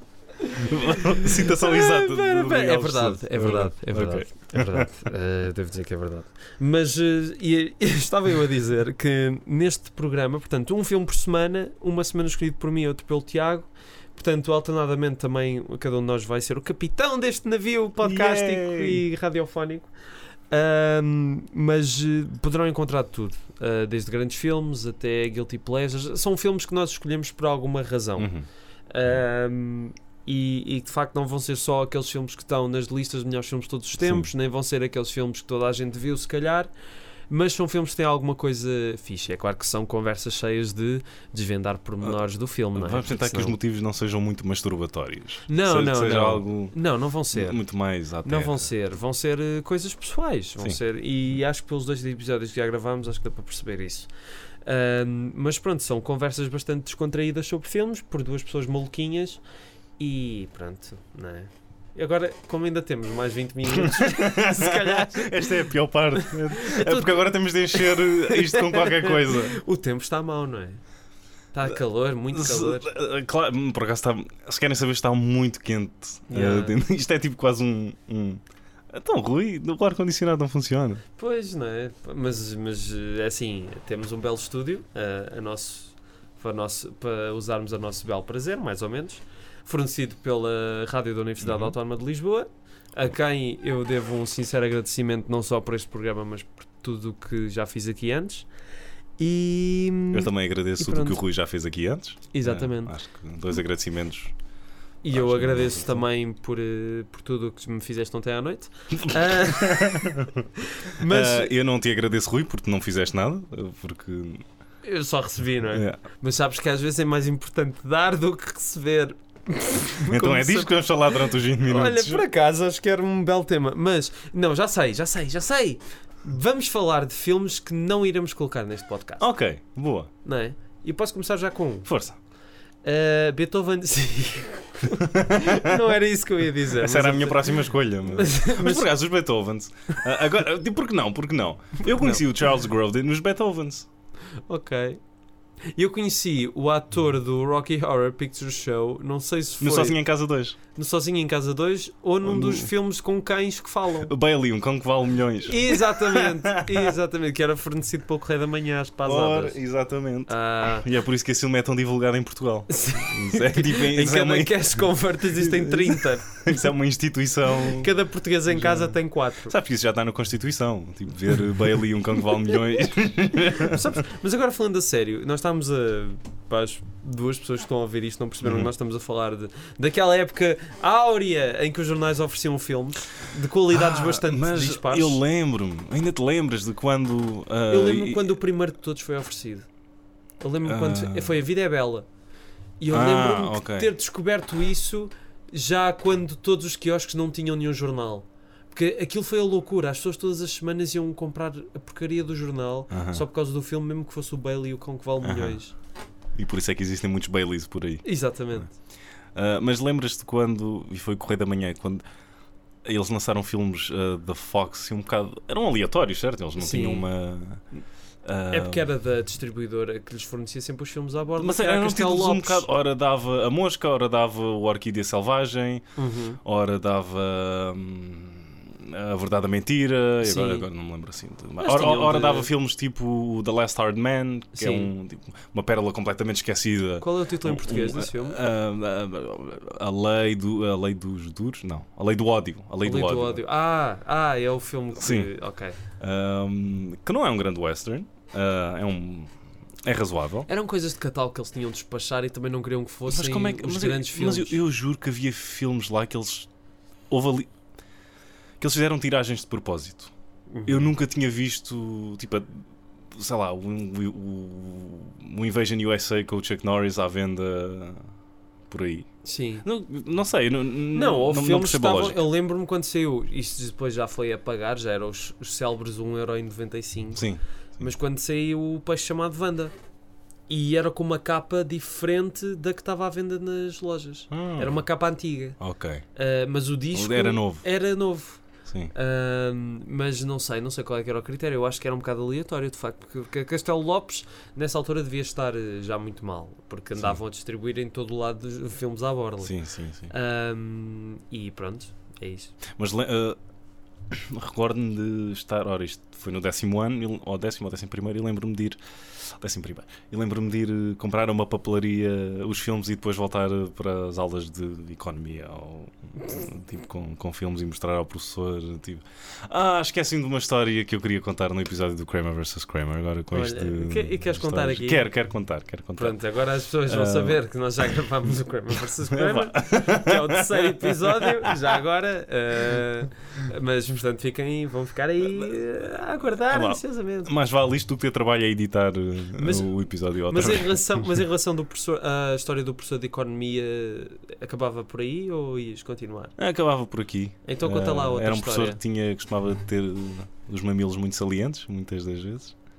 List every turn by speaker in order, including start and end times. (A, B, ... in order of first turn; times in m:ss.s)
0:00.5-0:04.9 A
0:01.1-0:19.9 B
0:18.0-0:19.0 A
0:20.5-0:28.3 B
0:28.2-0:28.4 A
0:28.9-0:36.7 B
0:34.0-0:34.3 A
0:37.3-0:43.6 B
0:42.7-0:46.8 A
0:45.5-0:47.6 B
0:47.3-0:48.7 A
0:48.2-0:54.1 B
0:54.6-0:59.4 B
1:00.0-1:05.6 B
1:03.7-1:09.6 A
1:06.2-1:10.8 B
1:11.5-1:12.9 B
1:12.3-1:21.0 A
1:16.3-1:16.8 B
1:21.2-1:38.5 B
1:31.4-1:31.7 A
1:39.2-1:41.2 B
1:40.1-1:44.3 A
1:42.3-1:42.9 B
1:45.0-1:51.5 B
1:45.1-1:46.0 A
1:49.0-1:50.5 A
1:51.0-1:54.4 A
1:54.8-2:09.3 B
1:55.7-1:56.0 A
2:00.0-2:02.2 A
2:09.2-2:10.1 A
2:10.2-2:11.9 B
2:11.8-2:12.2 A
2:12.8-2:18.8 B
2:15.0-2:15.8 A
2:16.7-2:23.9 A
2:21.8-2:22.2 B
2:24.5-2:25.0 B
2:25.7-2:30.0 B
2:29.6-2:30.6 A
2:30.7-2:34.1 B
2:32.2-2:32.7 A
2:34.0-2:36.9 A
2:35.4-2:39.6 B
2:39.0-2:47.9 A
2:40.3-2:40.8 B
2:42.7-2:46.7 B
2:47.7-2:49.5 B
2:48.5-2:53.8 A
2:53.5-3:05.2 B
2:58.4-2:58.7 A
3:03.7-3:08.2 A
3:07.7-3:09.7 B
3:10.4-3:12.0 B
3:10.6-3:11.4 A
3:12.8-3:25.7 B
3:12.9-3:13.9 A
3:22.9-3:23.2 A
3:25.2-3:25.6 A
3:26.3-3:28.6 A
3:28.0-3:28.7 B
3:29.3-3:32.0 A
3:32.8-3:37.6 A
3:36.6-3:37.0 B
3:38.2-3:38.9 A
3:38.5-3:42.7 B
3:41.4-3:45.9 A
3:46.0-3:46.4 B
3:46.4-4:03.4 A
3:50.2-3:50.6 B
3:51.6-3:52.5 B
3:54.5-3:54.9 B
3:57.0-3:58.4 B
4:02.8-4:05.8 B
4:04.9-4:05.3 A
4:06.0-4:09.3 A
4:09.8-4:10.5 A
4:10.5-4:14.6 B
4:13.0-4:16.5 A
4:17.1-4:17.5 A
4:18.6-4:20.1 A
4:20.5-4:20.9 B
4:20.6-4:28.1 A
4:28.7-4:29.1 A
4:29.2-4:29.6 B
4:29.6-4:32.2 A
4:30.9-4:37.3 B
4:37.1-4:37.9 A
4:37.8-4:39.7 B
4:40.5-4:45.6 B
4:44.3-4:44.8 A
4:45.6-4:46.0 A
4:46.1-4:59.5 B
4:46.9-4:47.7 A
4:48.7-4:48.9 A
4:59.4-5:00.1 A
5:00.1-5:02.5 B
5:02.8-5:03.4 A
5:04.1-5:26.2 A
5:23.3-5:25.1 B
5:26.0-5:37.3 B
5:26.8-5:27.4 A
5:29.1-5:31.6 A
5:35.2-5:35.5 A
5:36.4-5:41.1 A
5:39.4-5:46.4 B
5:46.4-5:52.5 A
5:47.4-5:48.8 B